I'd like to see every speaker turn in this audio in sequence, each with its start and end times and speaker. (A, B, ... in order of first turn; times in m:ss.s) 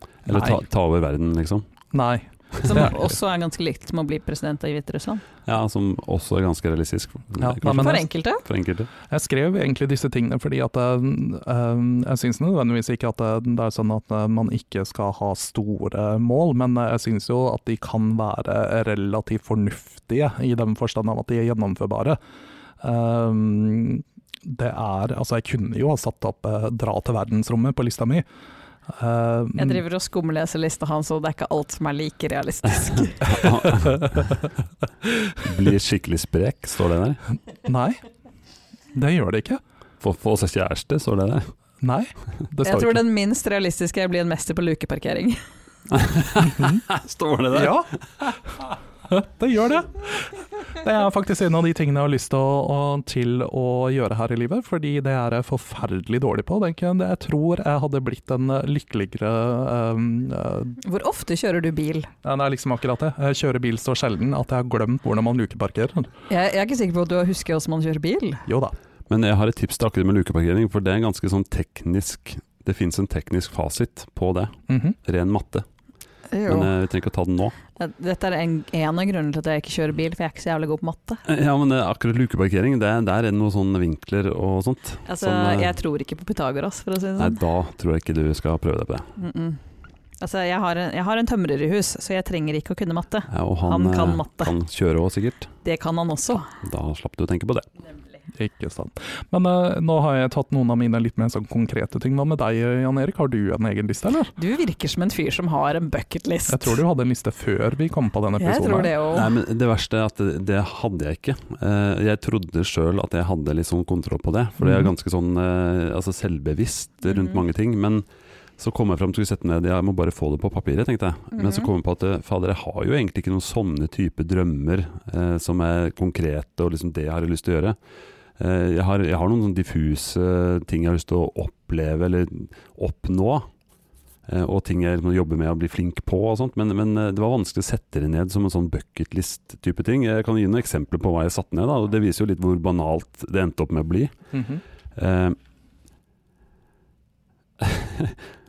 0:00.2-0:00.6 A
0:00.2-0:01.6 B
0:01.9-0:03.0 A
0:02.6-0:05.2 C
0:05.4-0:08.9 B
0:07.4-0:08.0 A
0:07.6-0:08.4 C
0:09.1-0:22.2 A
0:22.8-0:28.2 A
0:28.9-0:29.8 A
0:29.6-0:33.5 C
0:33.2-0:34.3 B
0:35.4-0:37.2 B
0:37.6-0:38.0 A
0:38.9-0:39.6 A
0:40.0-0:41.5 B
0:41.8-0:43.0 A
0:42.6-0:45.4 C
0:45.9-0:48.3 B
0:46.5-0:46.8 A
0:47.5-0:47.9 A
0:49.1-1:00.8 A
1:00.8-1:02.1 C
1:02.2-1:06.1 A
1:06.3-1:08.4 C
1:08.5-1:08.7 A
1:09.1-1:15.6 B
1:14.7-1:15.0 A
1:16.3-1:16.7 C
1:16.5-1:17.6 B
1:17.8-1:21.2 C
1:21.2-1:25.7 B
1:25.0-1:27.4 C
1:27.2-1:29.1 B
1:29.2-1:29.6 C
1:30.2-1:34.5 C
1:33.3-1:35.5 B
1:35.6-1:36.5 C
1:36.6-1:37.7 B
1:38.3-1:44.3 A
1:44.4-1:46.8 C
1:46.5-1:48.9 A
1:48.4-1:49.3 C
1:49.1-1:58.0 B
1:54.6-1:54.9 A
1:57.1-1:57.4 C
1:58.6-2:07.8 B
2:01.3-2:01.7 C
2:08.4-2:13.5 B
2:14.3-2:24.1 B
2:24.3-2:24.6 A
2:24.9-2:25.4 B
2:27.6-2:28.2 B